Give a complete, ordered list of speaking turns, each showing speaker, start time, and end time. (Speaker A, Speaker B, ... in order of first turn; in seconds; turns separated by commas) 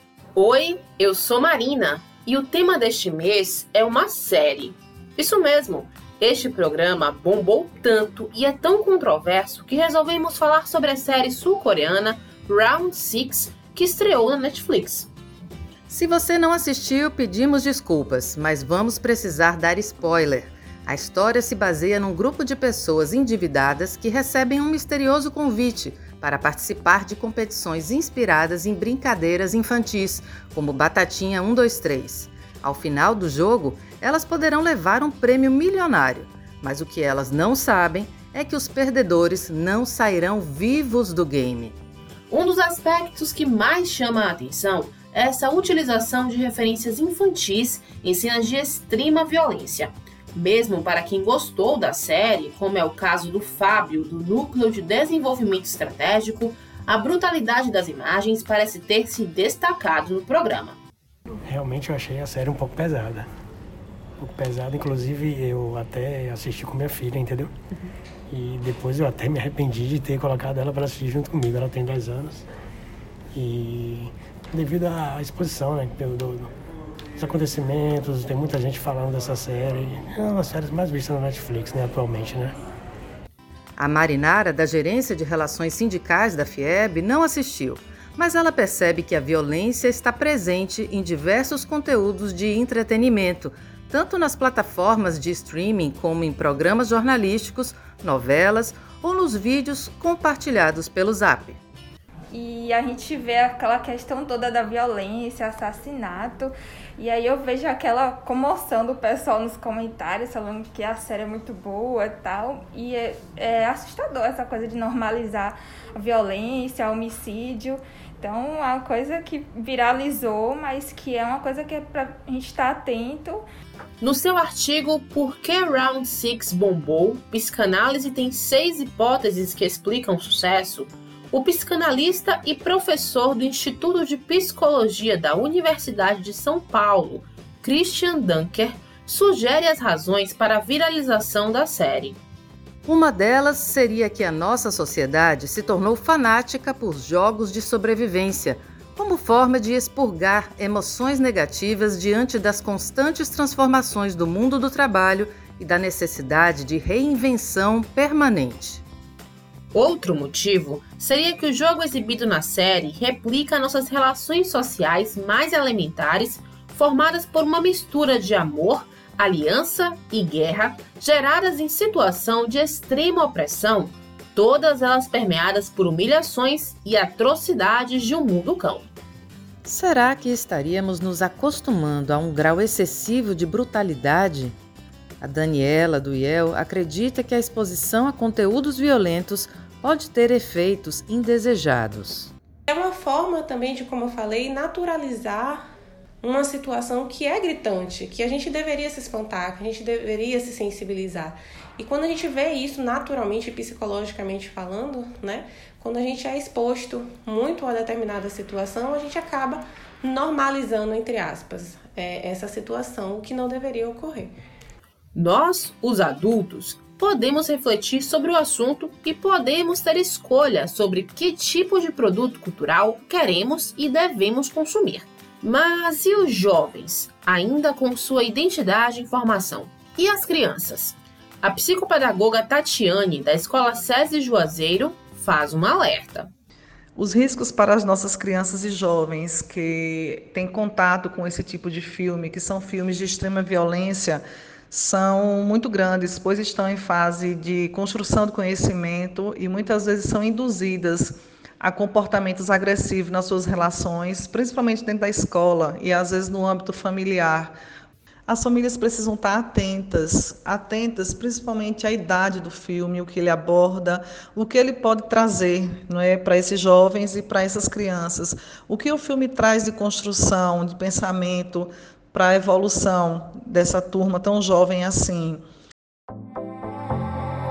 Speaker A: 0.3-15.1, Speaker B: 15.9-41.8, Speaker A: 42.3-60.8, Speaker C: 61.4-63.3, Speaker C: 64.2-67.5, Speaker C: 68.3-72.5, Speaker C: 73.3-76.5, Speaker C: 77.2-82.5, Speaker B: 83.8-101.6, Speaker D: 102.3-123.4, Speaker A: 124.0-142.2, Speaker B: 142.8-158.8, Speaker A: 159.7-178.9, Speaker B: 179.6-184.6, Speaker B: 185.2-192.3, Speaker E: 192.7-195.6, Speaker E: 196.2-214.3, Speaker A: 215.1-236.3, Speaker F: 236.9-257.5, Speaker F: 258.3-275.4